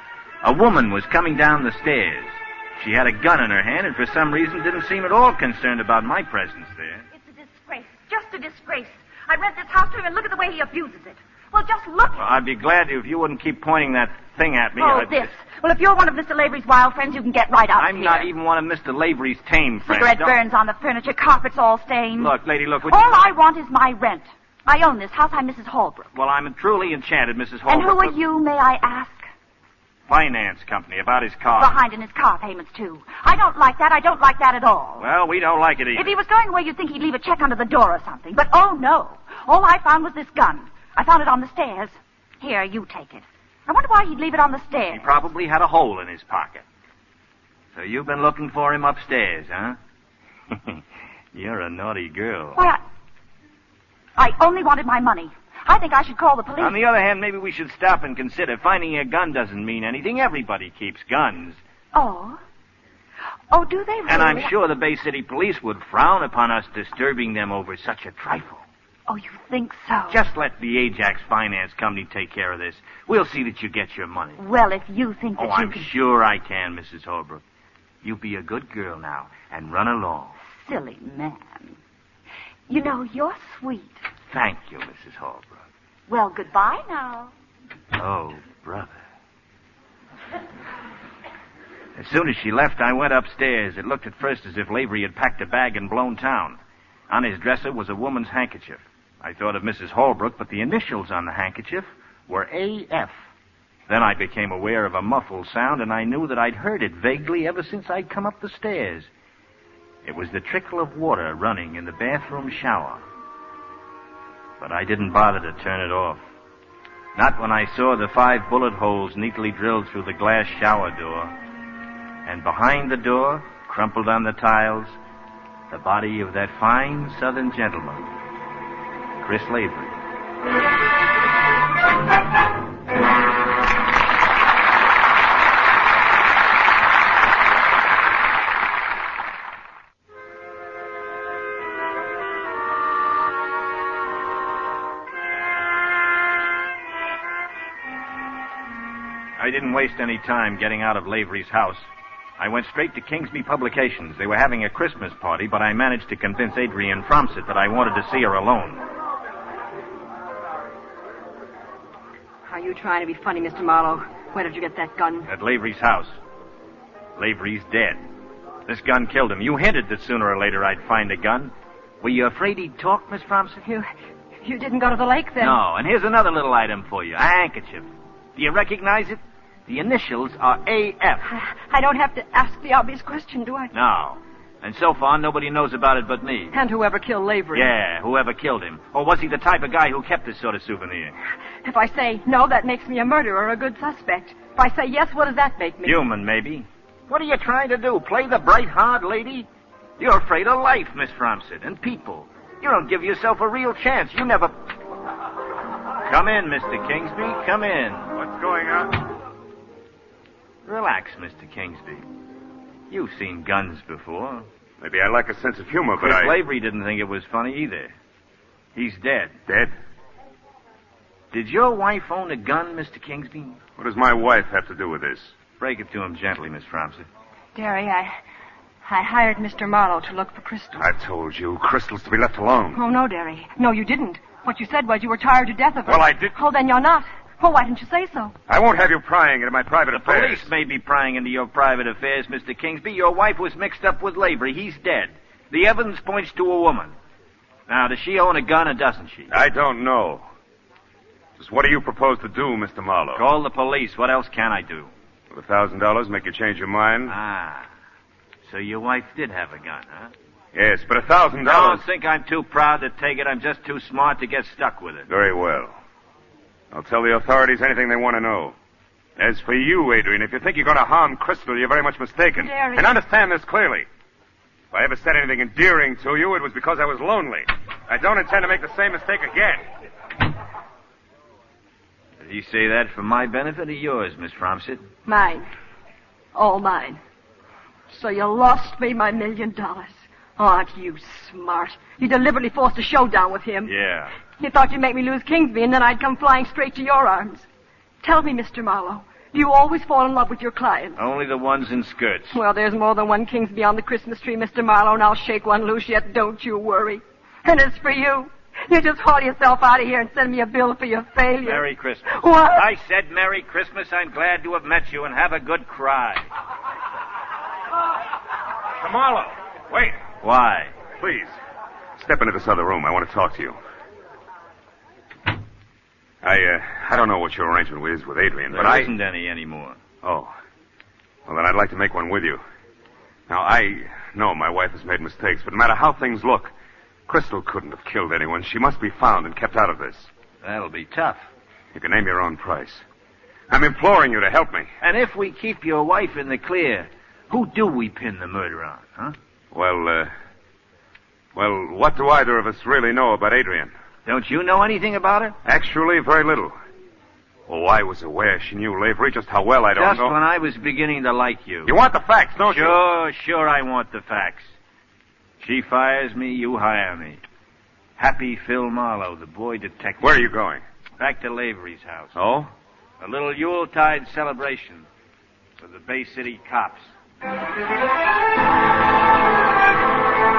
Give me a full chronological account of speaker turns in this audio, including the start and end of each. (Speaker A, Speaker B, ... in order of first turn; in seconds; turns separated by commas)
Speaker A: 0.4-7.0, Speaker B: 7.1-12.3, Speaker A: 12.2-15.3, Speaker B: 14.8-18.3, Speaker A: 17.7-20.4, Speaker B: 19.8-26.1, Speaker A: 22.2-23.2, Speaker A: 26.1-28.2, Speaker B: 27.7-29.3, Speaker A: 30.1-31.8, Speaker B: 31.6-35.0, Speaker A: 35.0-36.1, Speaker B: 35.9-45.0, Speaker A: 44.9-46.6, Speaker A: 47.7-49.8, Speaker A: 50.5-50.8, Speaker A: 51.3-52.6, Speaker B: 52.5-52.8, Speaker B: 54.1-56.8, Speaker A: 56.6-61.6, Speaker B: 61.9-62.4, Speaker B: 63.5-64.5, Speaker A: 64.0-68.6, Speaker B: 69.1-70.2, Speaker A: 70.1-74.4, Speaker B: 74.4-75.9, Speaker A: 75.4-77.4, Speaker A: 78.0-80.3, Speaker B: 80.4-81.8, Speaker B: 82.7-84.0, Speaker A: 84.3-85.6, Speaker B: 86.1-87.3, Speaker A: 87.9-88.9, Speaker A: 91.9-96.6, Speaker A: 97.1-103.1, Speaker A: 103.9-109.1, Speaker A: 110.0-113.0, Speaker A: 114.6-116.2, Speaker A: 117.1-121.3, Speaker A: 122.2-124.9, Speaker A: 125.7-128.1, Speaker A: 129.2-129.9, Speaker A: 149.4-151.9, Speaker A: 152.4-158.8, Speaker C: 162.4-165.3, Speaker A: 165.3-166.1, Speaker A: 167.2-168.0, Speaker A: 168.7-173.6, Speaker C: 174.4-175.6, Speaker A: 175.4-181.3, Speaker C: 181.3-183.7, Speaker A: 183.7-186.5, Speaker C: 186.5-187.7, Speaker A: 187.5-191.1, Speaker C: 191.6-196.0, Speaker A: 195.8-199.5, Speaker A: 200.0-204.5, Speaker A: 206.0-208.1, Speaker D: 208.1-209.0, Speaker A: 210.7-212.0, Speaker A: 212.9-214.4, Speaker D: 214.8-216.4, Speaker A: 216.0-217.9, Speaker A: 218.7-219.3, Speaker D: 219.5-219.7, Speaker A: 221.3-223.6, Speaker D: 223.8-225.3, Speaker A: 225.6-227.1, Speaker C: 227.5-228.2, Speaker C: 228.8-230.8, Speaker D: 230.8-232.8, Speaker C: 232.7-238.3, Speaker D: 235.8-236.3, Speaker D: 238.5-240.5, Speaker A: 239.9-246.9, Speaker A: 247.7-249.3, Speaker D: 249.3-250.2, Speaker D: 251.4-253.2, Speaker A: 253.1-254.9, Speaker D: 255.3-257.1, Speaker A: 257.1-257.7, Speaker A: 258.4-260.1, Speaker D: 260.5-261.8, Speaker A: 261.4-265.1, Speaker D: 265.1-265.7, Speaker D: 266.7-268.5, Speaker D: 269.2-273.9, Speaker C: 272.4-272.9, Speaker D: 274.7-279.6, Speaker A: 282.2-284.8, Speaker C: 285.1-285.5, Speaker C: 286.3-287.0, Speaker C: 287.9-293.7, Speaker A: 293.6-294.1, Speaker C: 294.4-297.5, Speaker C: 298.0-301.0, Speaker A: 301.0-302.4, Speaker C: 302.3-312.6, Speaker A: 311.4-316.2, Speaker D: 318.8-320.0, Speaker A: 320.2-320.7, Speaker D: 321.0-321.3, Speaker D: 322.0-323.6, Speaker D: 326.2-328.9, Speaker A: 328.5-329.8, Speaker D: 330.0-330.3, Speaker D: 331.3-332.4, Speaker D: 333.3-336.5, Speaker D: 337.1-340.1, Speaker A: 340.4-341.2, Speaker D: 341.7-342.8, Speaker D: 343.5-344.7, Speaker A: 344.8-349.1, Speaker D: 349.5-350.1, Speaker D: 351.3-353.7, Speaker A: 354.1-355.4, Speaker D: 355.4-356.5, Speaker D: 357.5-360.1, Speaker A: 359.7-361.7, Speaker D: 361.6-362.8, Speaker A: 362.4-364.5, Speaker A: 365.4-367.2, Speaker A: 368.0-370.2, Speaker D: 370.0-370.6, Speaker A: 371.0-372.1, Speaker D: 372.1-372.5, Speaker A: 373.0-374.9, Speaker A: 375.6-376.9